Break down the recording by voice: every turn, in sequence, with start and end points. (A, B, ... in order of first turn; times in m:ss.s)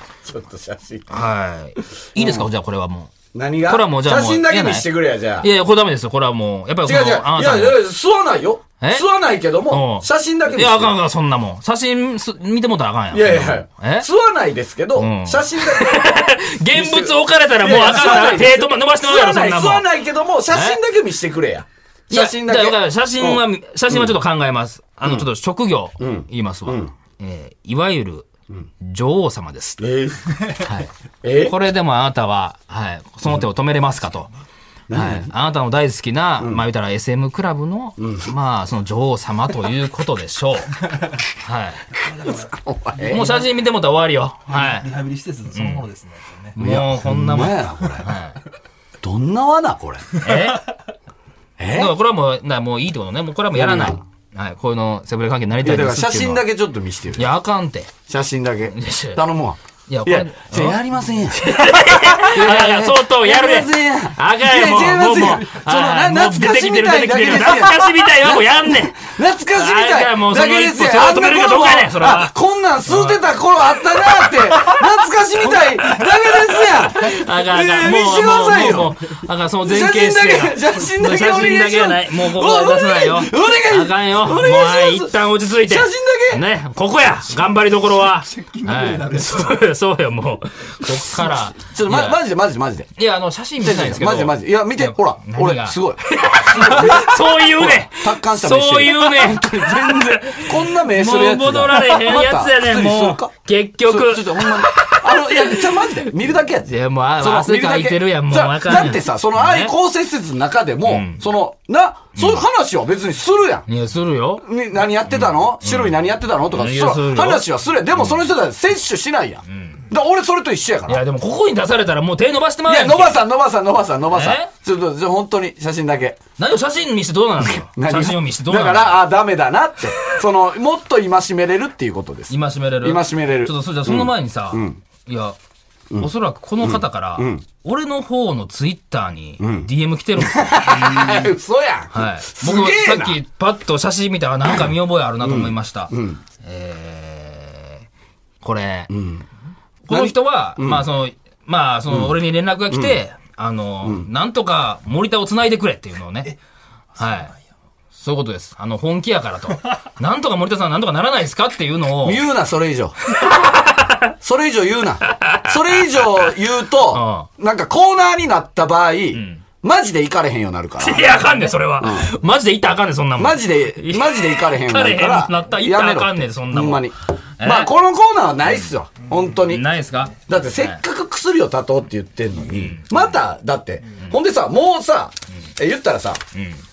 0:00.2-0:01.2 A
0:01.1-0:03.1 B
0:02.2-0:02.5 A
0:03.3-0:05.5 A
0:03.7-0:07.8 B
0:06.8-0:11.0 A
0:08.8-0:09.1 B
0:09.7-0:14.1 B
0:13.1-0:24.2 A
0:15.0-0:19.9 B
0:20.5-0:20.8 B
0:22.1-0:28.3 B
0:26.0-0:26.9 A
0:28.8-0:29.9 B
0:29.8-0:30.6 A
0:30.6-0:34.3 B
0:31.2-0:31.6 A
0:34.9-0:35.3 A
0:34.9-0:40.8 B
0:36.4-0:36.7 A
0:38.0-0:38.3 A
0:41.4-0:41.8 B
0:42.0-0:43.4 C
0:42.4-0:43.4 A
0:43.1-0:44.9 B
0:44.5-0:46.6 C
0:45.5-0:45.8 B
0:46.6-0:48.1 A
0:46.6-0:48.4 B
0:49.0-0:50.5 A
0:50.2-0:50.7 B
0:51.6-0:51.9 A
0:51.7-0:56.5 B
0:53.5-0:54.0 A
0:55.6-0:57.3 A
0:57.2-0:57.9 B
0:58.1-1:19.0 A
0:58.7-0:59.2 B
0:59.9-1:13.2 B
1:14.0-1:14.8 B
1:15.5-1:32.2 B
1:19.6-1:26.4 A
1:28.1-1:29.6 C
1:30.9-1:32.9 A
1:33.0-1:46.0 B
1:33.6-1:53.7 A
1:46.6-1:49.8 B
1:50.8-1:51.2 B
1:52.2-1:52.4 B
1:53.7-1:54.4 B
1:54.4-2:01.0 A
1:55.1-1:58.3 B
1:59.5-1:59.8 B
2:00.9-2:03.2 B
2:02.6-2:06.2 A
2:04.1-2:04.5 B
2:06.4-2:09.0 B
2:07.4-2:14.8 A
2:12.3-2:15.4 B
2:16.0-2:21.3 B
2:16.6-2:17.4 A
2:19.4-2:23.2 A
2:21.9-2:27.9 B
2:24.5-2:26.2 A
2:28.4-2:28.9 B
2:28.9-2:29.2 A
2:29.9-2:36.3 B
2:29.9-2:30.9 A
2:31.9-2:32.2 A
2:32.7-2:33.0 A
2:37.0-2:37.5 C
2:37.0-2:37.3 B
2:37.9-2:42.2 B
2:42.0-2:43.0 A
2:43.2-2:44.1 B
2:44.2-2:51.2 A
2:45.2-2:46.1 B
2:46.9-2:47.3 B
2:49.1-2:49.4 B
2:50.8-2:57.7 B
2:51.8-2:52.1 A
2:53.2-2:59.7 A
2:59.4-3:00.8 B
3:00.3-3:06.2 A
3:02.5-3:03.1 B
3:06.4-3:06.6 B